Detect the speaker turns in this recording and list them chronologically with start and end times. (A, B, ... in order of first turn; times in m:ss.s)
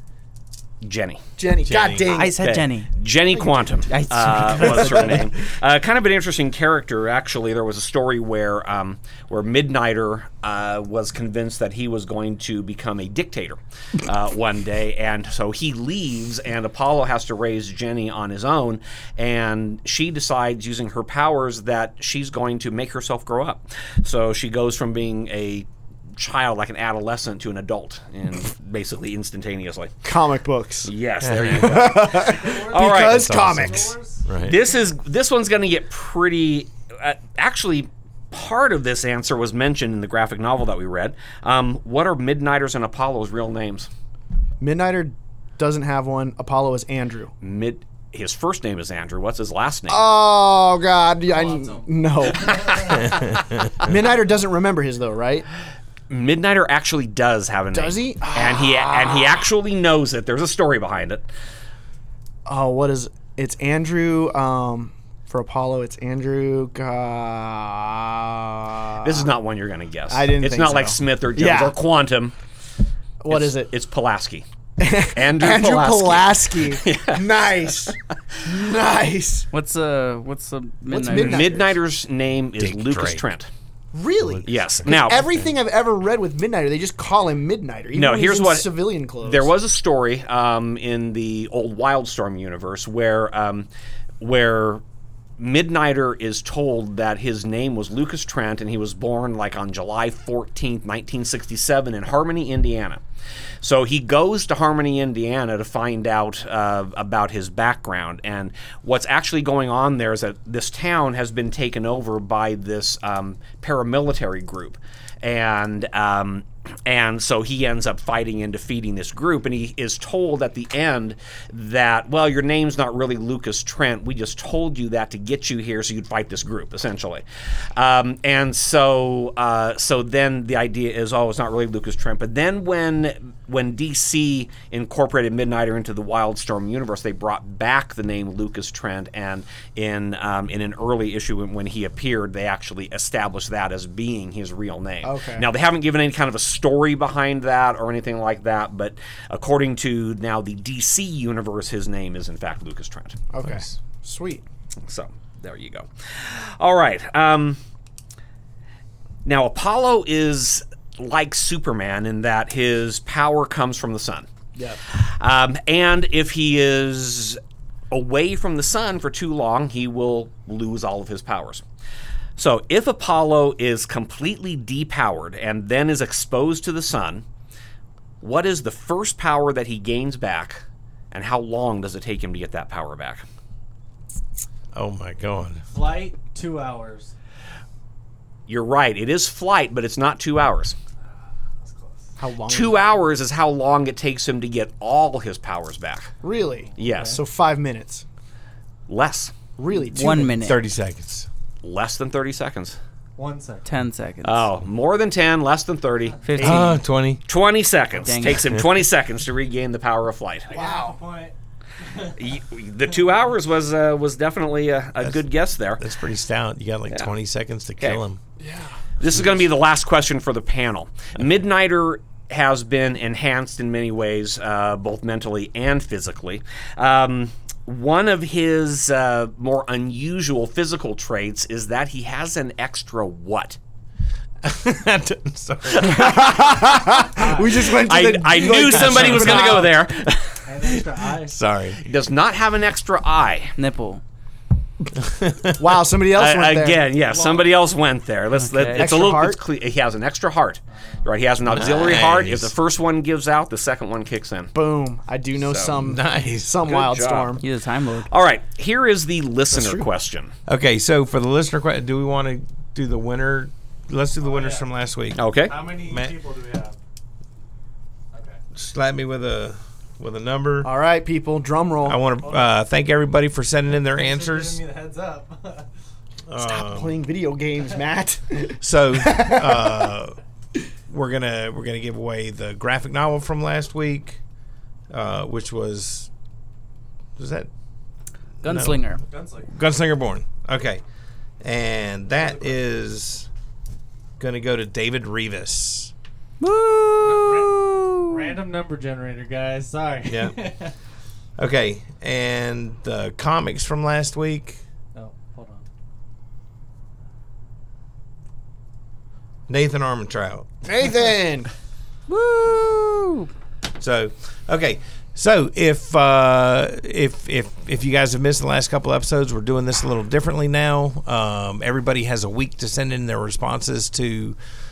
0:00.8-0:01.2 A
0:01.4-0:02.4 B
0:01.6-0:02.1 C
0:02.0-0:02.9 D
0:02.4-0:25.6 A
0:03.9-0:05.3 D
0:26.2-0:30.0 A
0:30.0-0:30.9 B
0:30.8-0:33.3 A
0:31.2-0:32.0 C
0:31.4-0:34.0 B
0:32.2-0:34.3 E
0:32.9-0:34.6 C
0:34.4-0:43.9 A
0:44.6-0:47.3 B
0:47.4-0:50.0 A
0:49.9-0:55.5 B
0:51.3-0:51.9 E
0:56.1-1:01.3 A
0:57.7-0:59.4 B
1:02.4-1:09.3 B
1:09.0-1:12.3 A
1:10.1-1:11.7 B
1:13.2-1:13.7 B
1:13.3-1:14.4 A
1:14.8-1:19.5 B
1:15.1-1:17.2 A
1:19.5-1:21.5 D
1:20.9-1:21.8 B
1:21.1-1:23.5 A
1:22.6-1:23.2 C
1:23.9-1:29.5 B
1:24.2-1:25.5 C
1:24.4-1:25.2 A
1:27.9-1:33.7 A
1:34.2-1:34.8 A
1:35.4-1:43.0 A
1:43.6-2:07.2 A
2:07.8-2:33.2 A
2:25.0-2:25.4 B
2:33.3-2:34.4 B
2:33.4-2:33.6 C
2:34.9-2:37.6 A
2:39.2-2:44.3 A
2:44.6-2:44.8 B
2:44.9-2:47.4 A
2:47.9-2:51.6 A
2:52.4-2:57.2 A
2:58.2-3:03.2 A
3:04.7-3:05.6 C
3:05.7-3:07.1 E
3:08.5-3:10.8 A
3:11.0-3:12.2 E
3:12.2-3:12.8 B
3:12.5-3:16.1 A
3:16.2-3:18.0 B
3:16.8-3:17.2 E
3:16.8-3:17.2 A
3:18.9-3:19.3 A
3:19.6-3:20.4 B
3:19.8-3:20.6 D
3:20.4-3:21.3 C
3:21.6-3:22.8 A
3:23.2-3:23.7 E
3:23.6-3:24.4 D
3:24.2-3:26.6 A
3:26.3-3:26.8 D
3:26.4-3:27.2 C
3:27.2-3:30.5 A
3:28.0-3:28.5 D
3:28.3-3:28.6 C
3:30.5-3:32.2 E
3:30.5-3:31.0 B
3:32.1-3:35.9 A
3:35.8-3:38.2 C
3:38.4-3:38.8 B
3:39.0-3:53.6 A
3:54.4-3:57.0 C
3:55.8-3:59.7 B
3:57.0-3:57.5 E
3:57.6-4:00.4 A
3:58.7-3:59.6 C
4:00.4-4:01.4 E
4:00.6-4:01.8 C
4:01.8-4:03.5 A
4:03.6-4:04.0 D
4:05.0-4:05.8 C
4:05.6-4:06.8 B
4:06.1-4:14.5 A
4:07.1-4:07.5 E
4:08.4-4:09.1 D
4:08.8-4:09.4 B
4:11.5-4:12.5 C
4:14.5-4:17.4 B
4:15.4-4:15.7 A
4:15.7-4:16.6 C
4:16.6-4:17.4 A
4:17.4-4:18.1 D
4:18.1-4:20.3 A
4:19.5-4:19.9 B
4:20.5-4:26.1 C
4:24.2-4:24.6 E
4:25.2-4:25.6 A
4:25.4-4:26.8 E
4:28.1-4:28.4 E
4:28.6-4:30.7 C
4:30.6-4:32.0 B
4:31.8-4:34.6 C
4:33.9-4:35.7 E
4:36.3-4:37.0 C
4:36.4-4:39.9 B
4:38.6-4:40.2 C
4:40.9-4:44.2 C
4:44.9-4:46.1 C
4:47.2-4:47.5 C
4:48.4-4:48.8 C
4:48.4-4:49.0 D
4:49.1-4:49.5 E
4:49.4-4:50.8 C
4:51.4-4:53.3 C
4:52.2-4:52.6 E
4:54.2-4:55.9 C
4:56.4-4:58.3 D
4:57.0-5:00.7 E
5:00.1-5:00.4 C
5:01.4-5:04.6 C
5:04.9-5:05.6 E
5:09.5-5:10.5 C
5:10.6-5:11.5 B
5:12.1-5:13.3 D
5:13.7-5:24.4 C